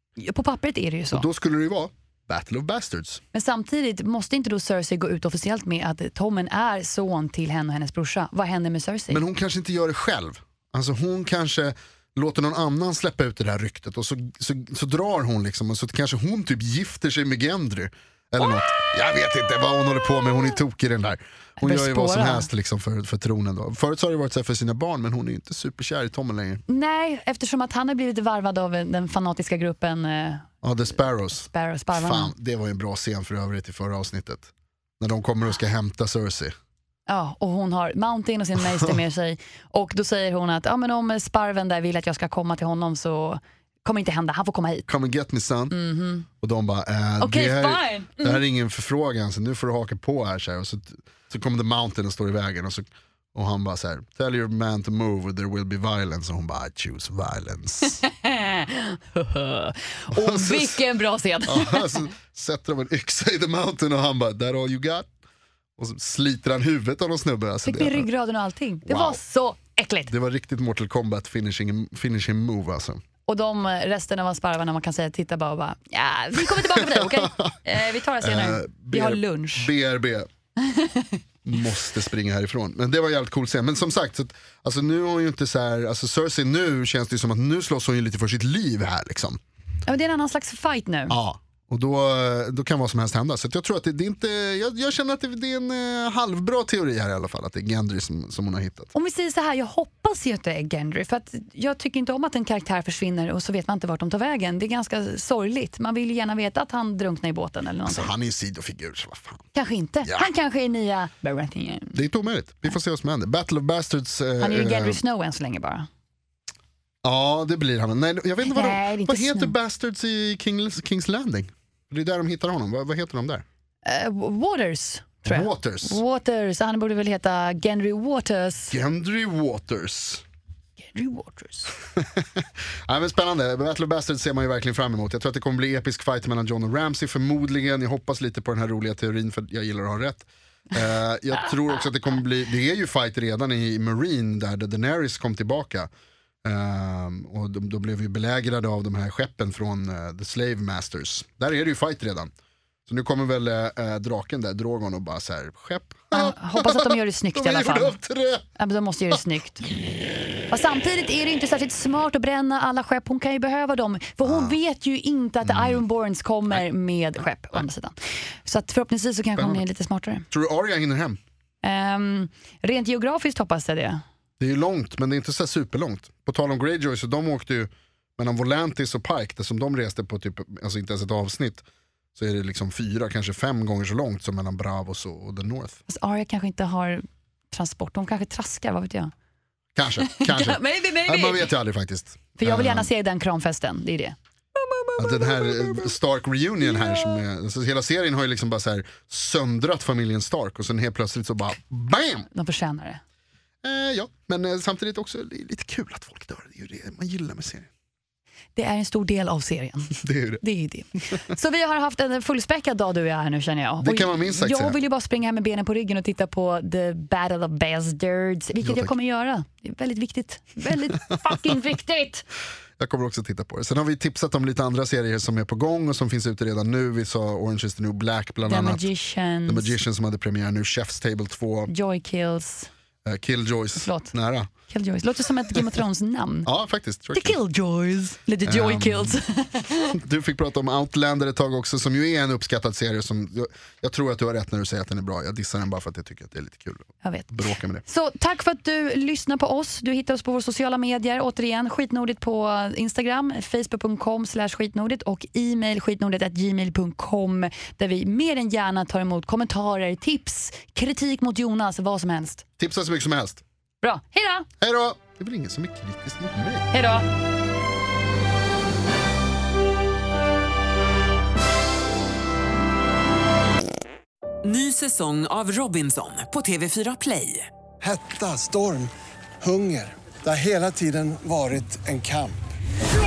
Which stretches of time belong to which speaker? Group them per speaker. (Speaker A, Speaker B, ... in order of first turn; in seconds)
Speaker A: 0.2-1.2, 3.3-9.2, 21.6-22.5, 26.7-30.5, 31.3-32.3, 37.1-44.9, 45.7-46.2, 47.2-48.4, 57.9-62.1, 67.6-70.1, 73.3-79.7, 80.6-81.2, 89.9-91.2, 98.9-108.1, 109.5-112.0, 114.4-115.9, 118.4-119.5, 123.8-128.7, 130.8-131.7, 156.1-157.9, 158.6-159.7, 160.5-170.2, 171.6-174.0, 185.9-189.1, 190.0-191.5, 192.4-195.9, 196.7-197.2, 202.3-203.0, 208.6-222.2, 228.4-229.8, 231.7-232.7, 233.8-236.5, 237.1-240.0, 247.0-262.4, 263.8-264.5, 266.7-267.1
Speaker B: 1.1-3.2, 9.1-26.6, 30.6-36.5, 44.9-45.7, 46.4-58.0, 60.1-60.8, 61.4-65.1, 65.8-68.1, 68.9-69.2, 70.1-73.0, 76.4-77.6, 78.2-80.3, 81.4-89.4, 91.1-98.9, 107.8-109.5, 110.0-110.3, 111.9-115.0, 117.0-123.4, 125.2-126.0, 128.7-130.2, 131.9-145.9, 146.4-152.3, 152.9-158.4, 164.2-164.6, 165.5-165.8, 169.4-169.6, 170.3-171.2, 174.4-181.6, 182.1-185.8, 189.8-192.9, 195.0-202.3, 203.6-207.7, 209.9-210.4, 213.8-214.8, 218.6-218.9, 222.8-228.8, 229.5-231.7, 233.0-234.5, 236.4-237.4, 238.4-239.2, 239.9-247.8, 262.6-263.4, 264.6-266.7
Speaker C: 274.4-277.5
Speaker D: 277.8-282.5